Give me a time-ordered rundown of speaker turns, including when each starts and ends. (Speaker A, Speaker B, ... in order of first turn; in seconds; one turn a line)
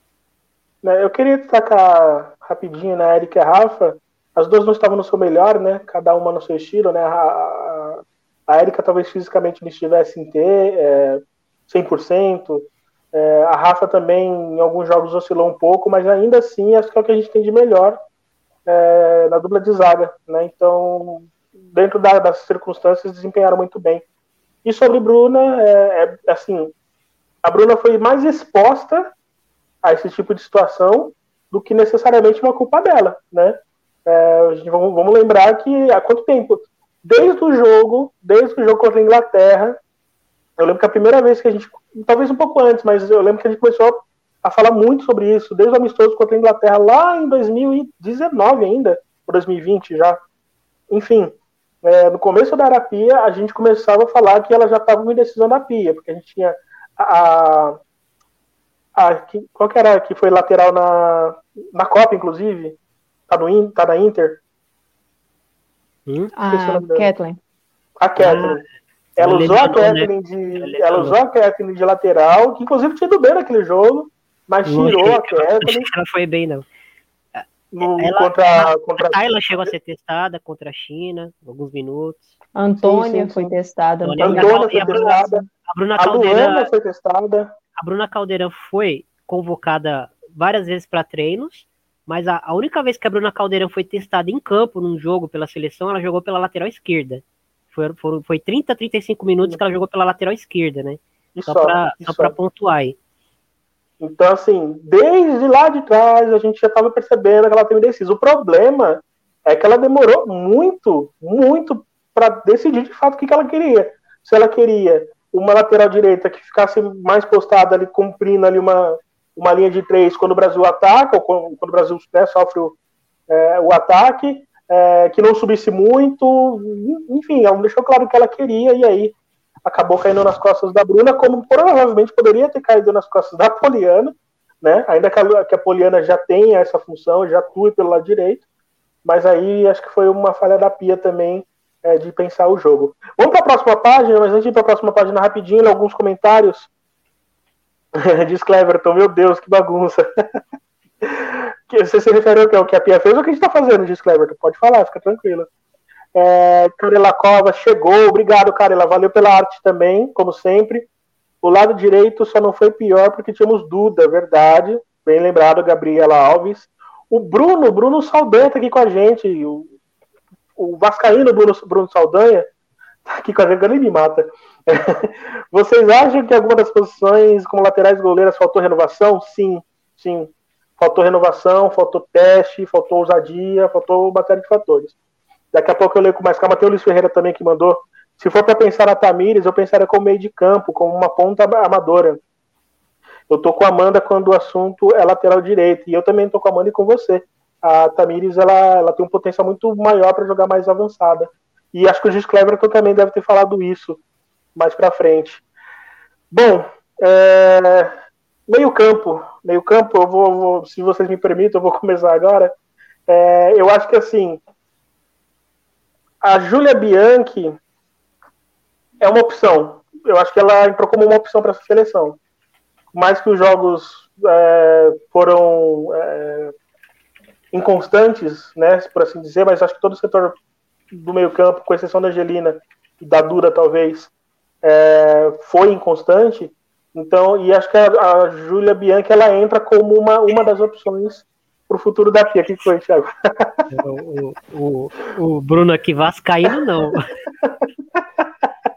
Speaker A: 0.8-18.0
Speaker A: 18.6-24.0
Speaker A: 24.6-26.7
Speaker A: 27.4-29.1
Speaker A: 29.8-39.8
Speaker A: 40.6-50.2
Speaker A: 50.9-57.8
Speaker A: 58.9-62.8
Speaker A: 63.3-64.4
Speaker B: 66.1-66.3
Speaker C: 66.4-67.4
Speaker A: 66.5-67.1
Speaker A: 68.0-68.6
Speaker B: 68.2-68.6
Speaker B: 69.2-71.2
Speaker A: 69.2-75.9
Speaker B: 74.7-76.6
Speaker B: 77.4-82.3
Speaker A: 77.7-79.7
Speaker C: 82.6-85.4
Speaker A: 82.8-83.5
Speaker B: 84.0-86.7
Speaker A: 84.2-85.4
Speaker A: 86.0-87.5
Speaker B: 87.8-103.0
Speaker A: 101.4-102.3
Speaker A: 104.0-122.8
Speaker A: 123.3-138.4
Speaker A: 139.1-146.7
Speaker A: 147.9-150.0
Speaker A: 151.0-155.5
Speaker A: 156.1-160.9
Speaker A: 161.4-169.7
Speaker A: 170.6-172.5
Speaker A: 173.1-184.9
Speaker A: 185.5-192.2
Speaker A: 193.3-204.0
Speaker A: 204.6-205.4
Speaker A: 206.3-207.9
Speaker A: 208.5-212.5
Speaker A: 213.1-214.4
Speaker A: 216.2-217.6
Speaker A: 219.0-222.2
Speaker A: 222.9-226.5
Speaker A: 227.5-230.4
Speaker A: 230.9-234.1
Speaker A: 234.6-243.7
Speaker B: 243.7-247.1
Speaker A: 247.4-248.3